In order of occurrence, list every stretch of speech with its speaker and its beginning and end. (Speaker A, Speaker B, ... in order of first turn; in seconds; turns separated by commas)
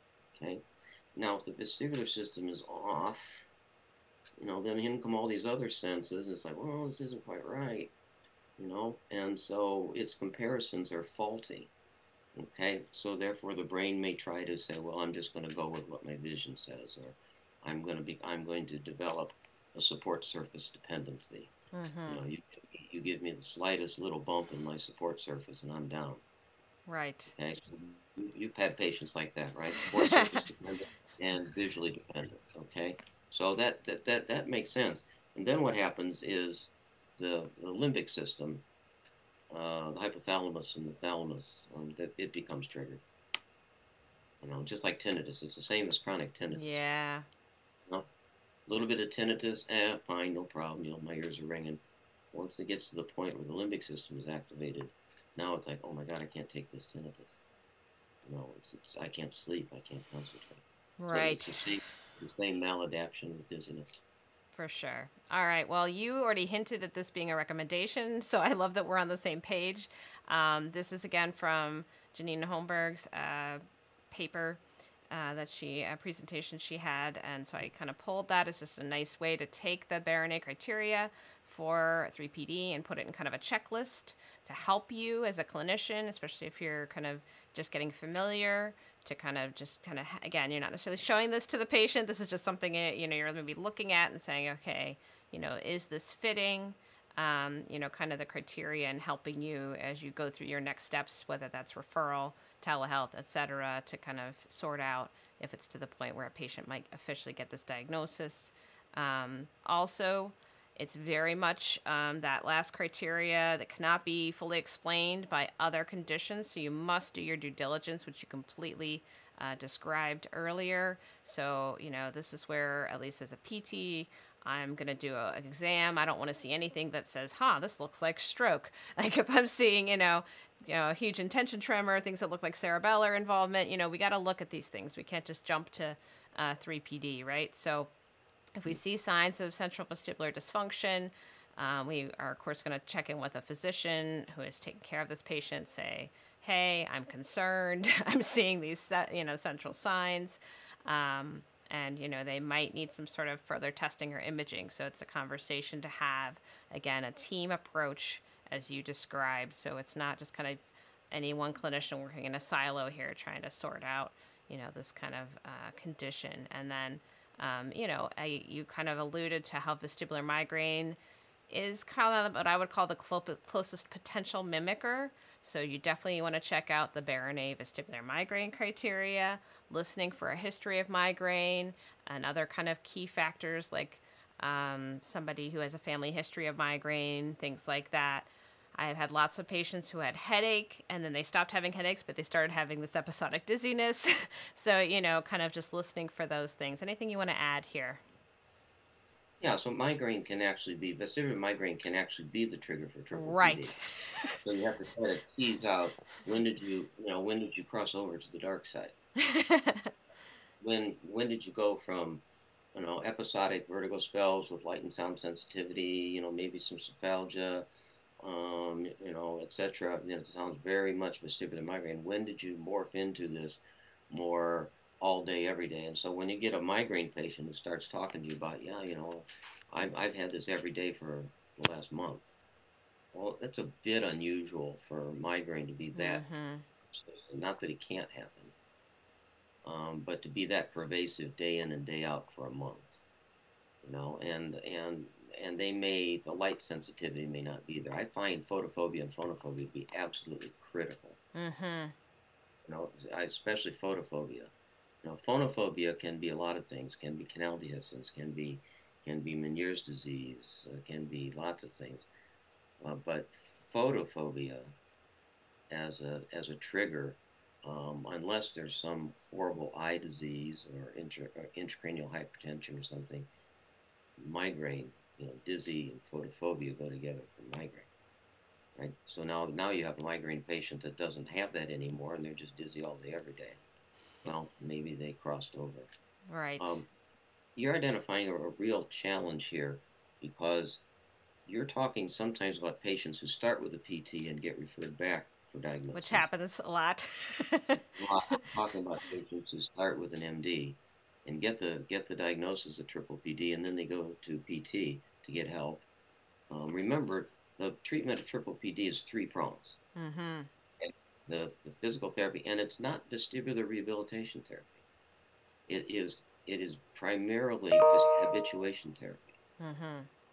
Speaker A: 0.3-0.6, Speaker A: 1.1-3.5, Speaker A: 4.4-7.9, Speaker A: 8.6-11.7, Speaker A: 12.3-21.5, Speaker B: 21.7-22.2, Speaker A: 22.1-26.2, Speaker B: 26.9-27.3, Speaker A: 27.3-38.6, Speaker B: 30.0-30.3, Speaker A: 39.5-43.0, Speaker A: 44.4-46.8, Speaker B: 46.5-47.3, Speaker A: 48.7-51.8, Speaker A: 52.3-57.5, Speaker A: 58.2-64.0, Speaker B: 61.0-61.6, Speaker B: 64.5-73.6, Speaker B: 74.1-137.9, Speaker B: 138.6-171.0, Speaker B: 171.5-198.0, Speaker A: 199.4-203.8, Speaker B: 203.1-204.3, Speaker A: 204.4-208.9, Speaker B: 209.2-209.9, Speaker A: 210.6-212.2, Speaker A: 212.8-217.7, Speaker A: 218.2-232.3, Speaker A: 233.1-236.2, Speaker B: 235.9-236.7, Speaker A: 236.9-238.5, Speaker A: 239.7-243.0, Speaker A: 243.8-251.2, Speaker B: 251.3-251.9, Speaker A: 252.7-254.5, Speaker A: 255.0-262.1, Speaker A: 262.8-264.7, Speaker A: 265.7-273.3, Speaker A: 274.2-277.9, Speaker A: 278.8-283.6, Speaker A: 284.2-285.9, Speaker B: 286.3-286.8, Speaker A: 286.6-286.9, Speaker A: 287.6-290.8, Speaker A: 291.5-296.3, Speaker B: 295.9-297.8, Speaker A: 298.0-305.8, Speaker A: 306.5-309.8, Speaker B: 310.0-310.5, Speaker A: 310.8-314.8, Speaker A: 315.7-319.3, Speaker B: 319.6-320.1